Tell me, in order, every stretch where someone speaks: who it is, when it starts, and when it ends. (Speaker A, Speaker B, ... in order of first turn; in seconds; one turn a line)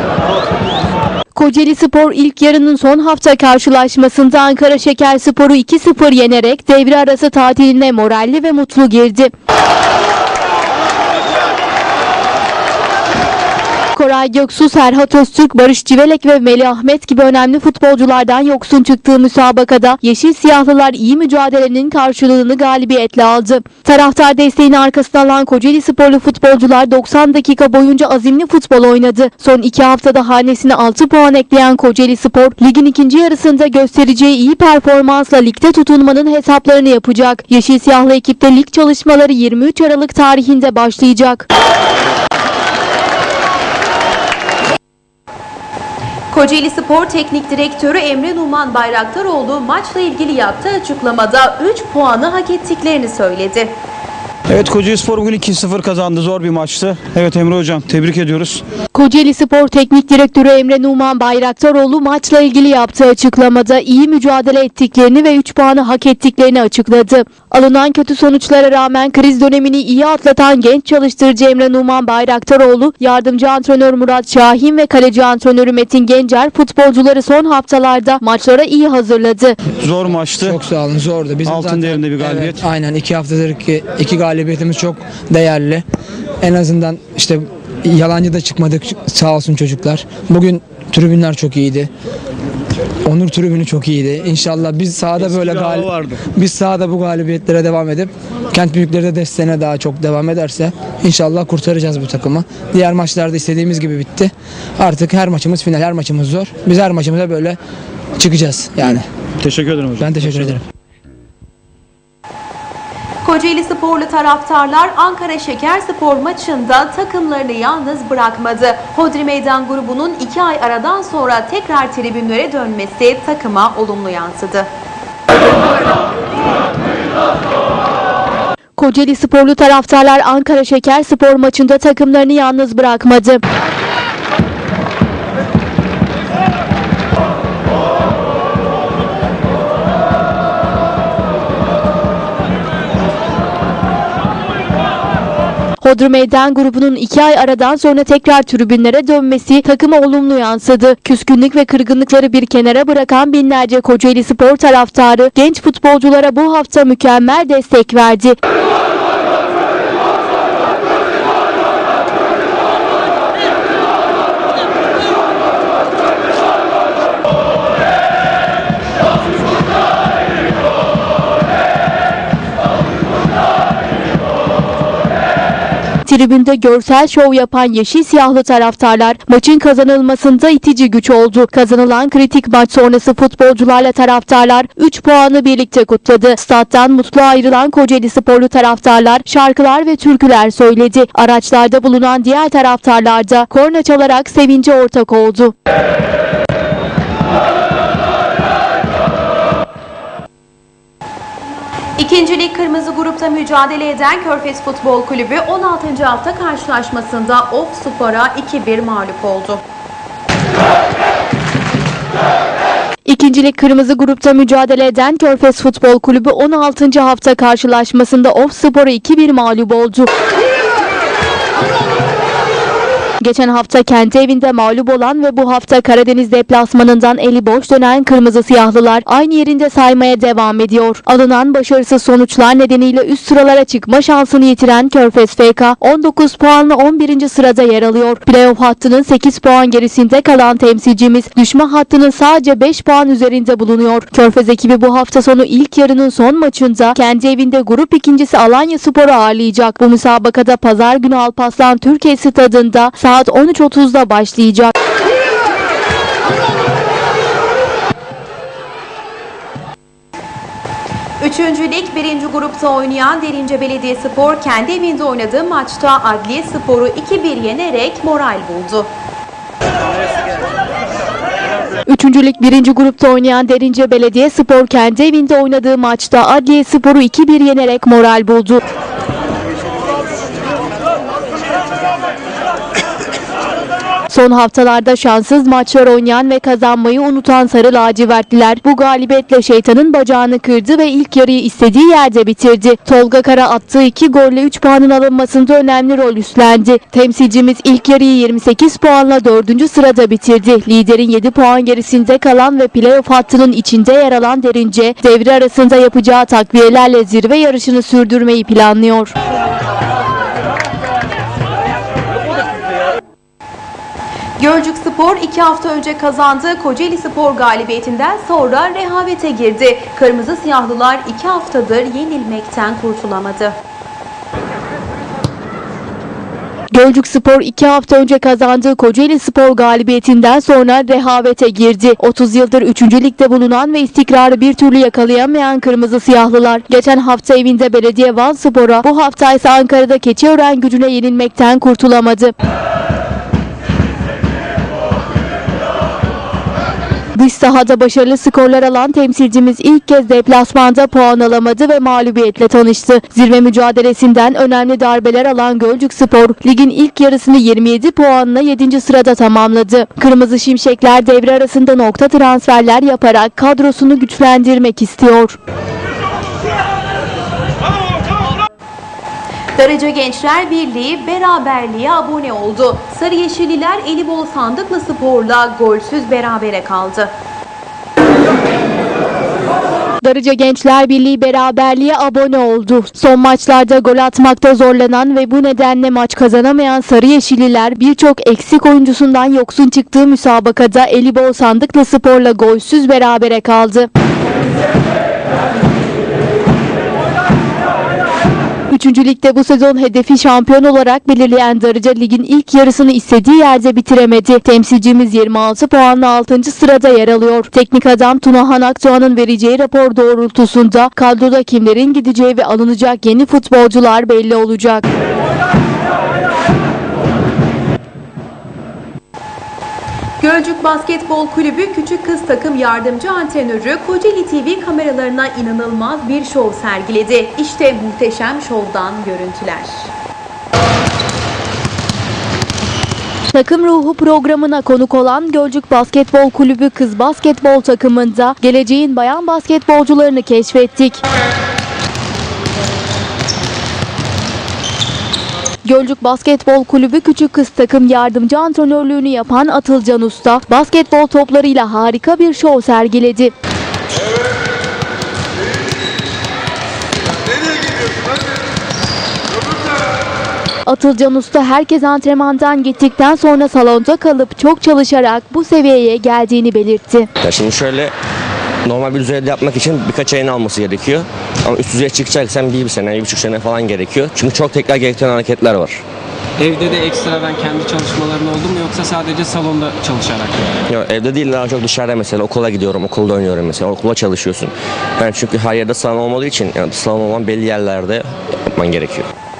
Speaker A: 1.3-9.3
Speaker A: 13.9-41.5
Speaker B: 46.3-53.7
Speaker C: 54.5-58.6
Speaker A: 58.9-79.5
Speaker C: 79.8-80.6
Speaker D: 80.4-85.8
Speaker C: 81.4-82.6
Speaker D: 86.4-91.9
Speaker D: 93.0-107.6
Speaker C: 95.3-96.2
Speaker D: 108.2-109.0
Speaker C: 109.4-110.5
Speaker D: 110.0-110.6
Speaker B: 113.2-124.7
Speaker A: 128.8-133.4
Speaker A: 145.8-158.4
Speaker A: 176.0-195.5
Speaker B: 202.0-209.6
Speaker A: 213.1-220.1
Speaker A: 223.2-254.7
Speaker B: 261.2-268.9
Speaker A: 271.9-278.6
Speaker A: 284.1-309.1
Speaker B: 314.4-323.6
Speaker A: 326.7-342.3
Speaker A: 347.1-365.4
Speaker B: 369.6-377.1
Speaker A: 380.0-393.9
Speaker A: 398.7-414.8
Speaker B: 420.2-429.9
Speaker A: 433.3-441.0
Speaker A: 445.6-453.3
Speaker A: 460.6-467.1
Speaker E: 467.2-467.9
Speaker E: 468.6-475.8
Speaker F: 476.4-480.4
Speaker E: 480.7-489.1